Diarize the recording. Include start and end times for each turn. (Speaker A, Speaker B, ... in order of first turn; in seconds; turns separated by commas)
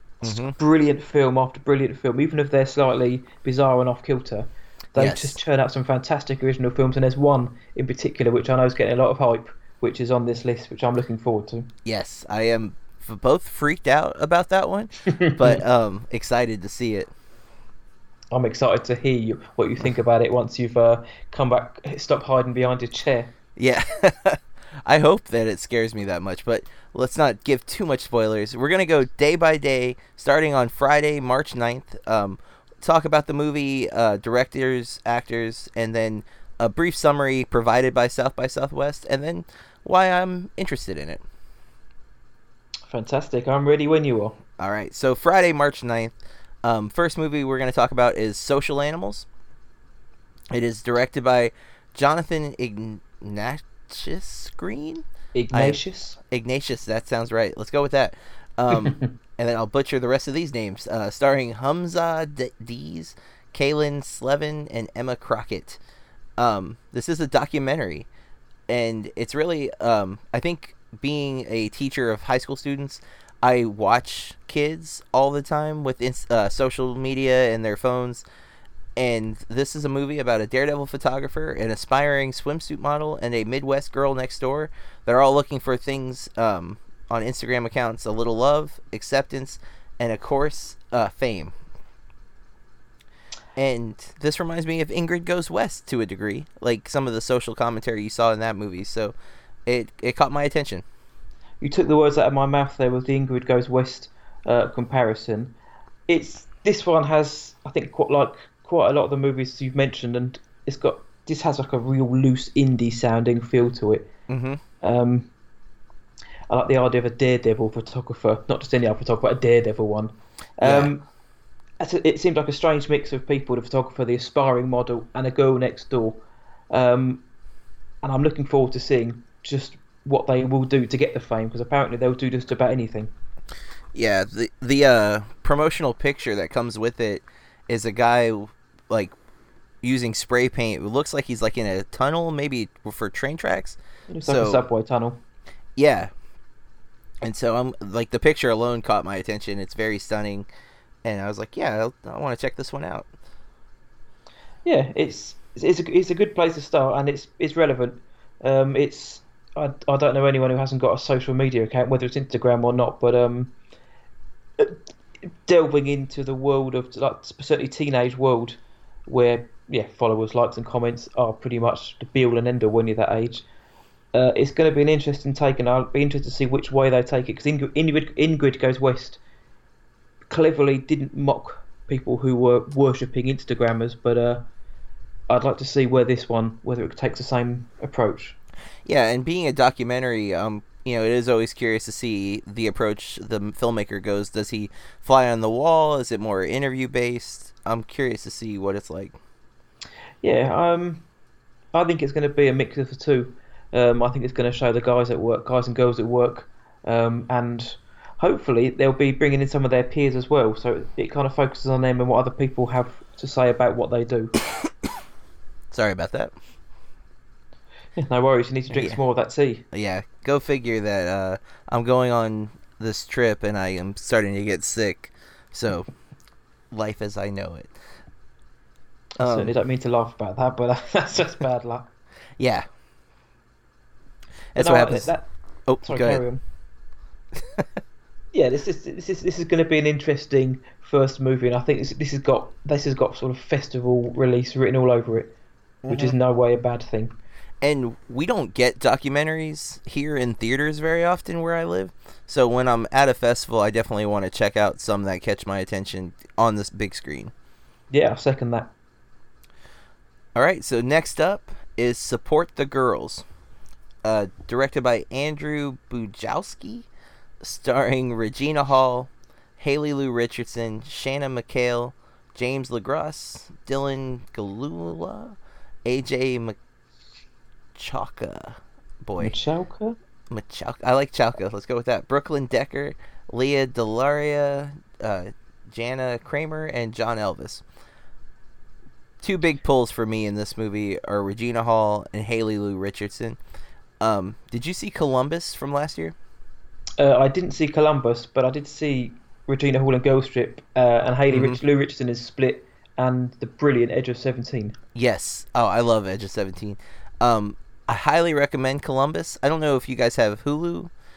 Speaker A: 0.2-11.7, Speaker B: 0.2-0.5, Speaker B: 5.0-5.4, Speaker B: 11.8-17.1, Speaker A: 15.1-15.6, Speaker A: 18.3-23.3, Speaker B: 23.6-41.2, Speaker A: 42.9-44.4, Speaker B: 44.6-49.3, Speaker B: 50.5-55.8, Speaker A: 55.3-56.2, Speaker B: 56.3-65.8, Speaker A: 58.7-59.1, Speaker B: 66.4-68.1, Speaker B: 68.7-78.2, Speaker B: 79.0-91.5, Speaker B: 93.5-99.2, Speaker B: 99.7-100.8, Speaker A: 101.6-105.5, Speaker A: 106.1-114.1, Speaker B: 114.3-114.6, Speaker A: 114.8-115.3, Speaker A: 116.5-121.0, Speaker B: 120.6-120.9, Speaker A: 121.8-127.2, Speaker A: 128.0-133.1, Speaker B: 133.9-139.1, Speaker B: 139.8-144.6, Speaker A: 144.1-145.2, Speaker B: 145.8-146.1, Speaker B: 147.2-150.5, Speaker B: 151.0-153.1, Speaker A: 154.6-163.5, Speaker A: 165.3-173.4, Speaker A: 174.1-179.2, Speaker A: 180.3-184.4, Speaker A: 185.3-188.4, Speaker B: 188.8-199.1, Speaker A: 200.2-201.1, Speaker A: 201.7-214.3, Speaker B: 215.7-216.3, Speaker A: 218.0-219.6, Speaker B: 218.7-219.0, Speaker B: 219.7-225.9, Speaker B: 226.7-227.7, Speaker B: 229.2-229.5, Speaker A: 229.2-231.9, Speaker B: 232.4-232.7, Speaker B: 234.5-235.1, Speaker A: 234.6-235.3, Speaker B: 235.7-236.2, Speaker A: 235.8-236.4, Speaker B: 237.4-237.6, Speaker A: 238.3-245.3, Speaker B: 245.8-246.2, Speaker A: 245.9-247.1, Speaker B: 247.6-257.3, Speaker A: 257.9-258.7, Speaker B: 260.3-263.2, Speaker B: 264.0-266.9, Speaker B: 267.4-276.6, Speaker B: 277.8-279.3, Speaker A: 279.2-280.0, Speaker B: 280.3-287.6, Speaker B: 289.2-293.4, Speaker B: 294.0-296.1, Speaker A: 297.0-304.8, Speaker B: 301.3-301.6, Speaker B: 304.9-310.9